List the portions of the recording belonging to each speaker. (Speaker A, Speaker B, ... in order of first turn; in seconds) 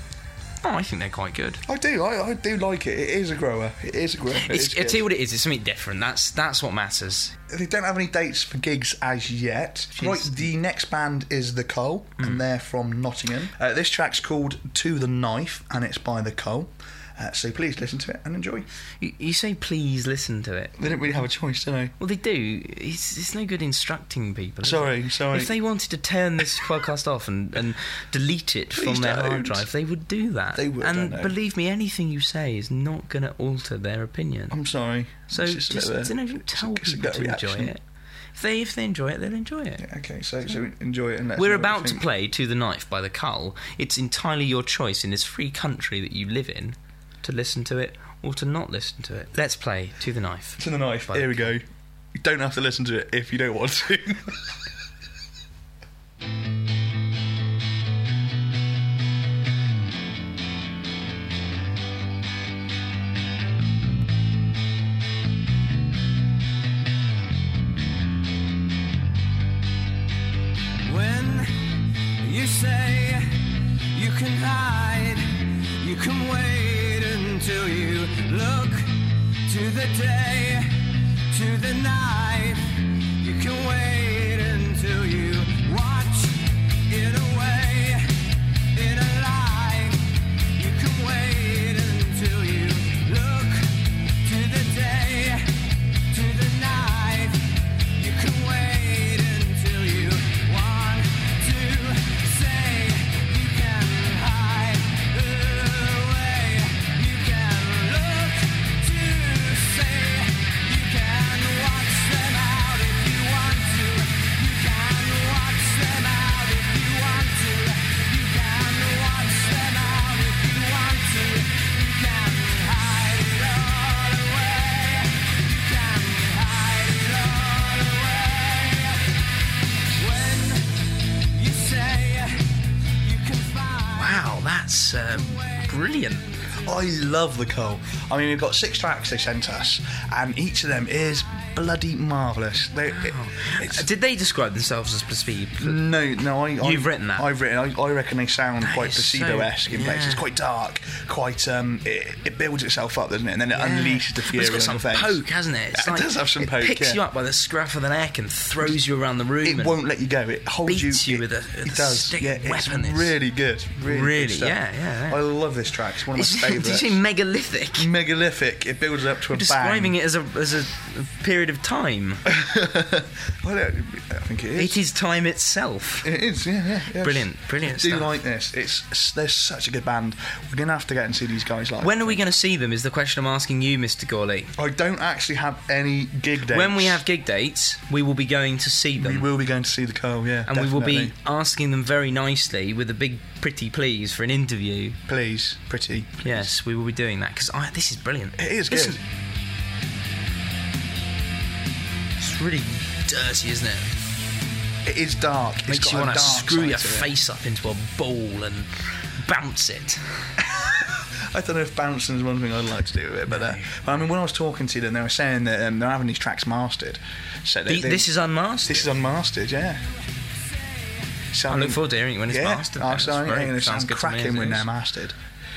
Speaker A: 0.6-1.6, 4.4-7.3, 9.9-10.5, 19.0-21.2, 22.0-34.6, 35.3-37.8, 38.4-39.9, 41.4-51.5, 133.9-136.3, 142.9-145.8, 146.6-147.3, 148.6-150.3, 153.5-159.8, 160.7-163.2, 163.9-165.2, 166.1-167.9, 169.3-172.2, 174.6-176.1, 176.9-178.2, 181.8-184.5, 186.4-189.3, 190.5-195.0, 196.2-199.0, 202.2-203.9, 205.7-210.0, 213.3-213.8, 217.7-219.0, 221.5-224.7
Speaker B: 1.7-5.0, 7.5-18.6, 20.8-21.9, 24.6-25.5, 28.8-29.7, 30.5-31.4, 34.5-37.7, 39.8-42.0, 50.6-51.6, 52.2-54.4, 136.6-143.8, 145.6-155.2, 155.7-157.0, 159.4-167.0, 167.8-169.9, 172.3-174.8, 176.0-182.2, 184.6-187.0, 189.0-191.2, 195.1-196.5, 198.4-199.0, 204.8-207.1, 210.6-218.1, 218.7-219.8, 221.3-225.2
Speaker C: 70.8-71.5, 72.2-88.2, 88.7-129.1, 129.9-130.8, 131.3-134.0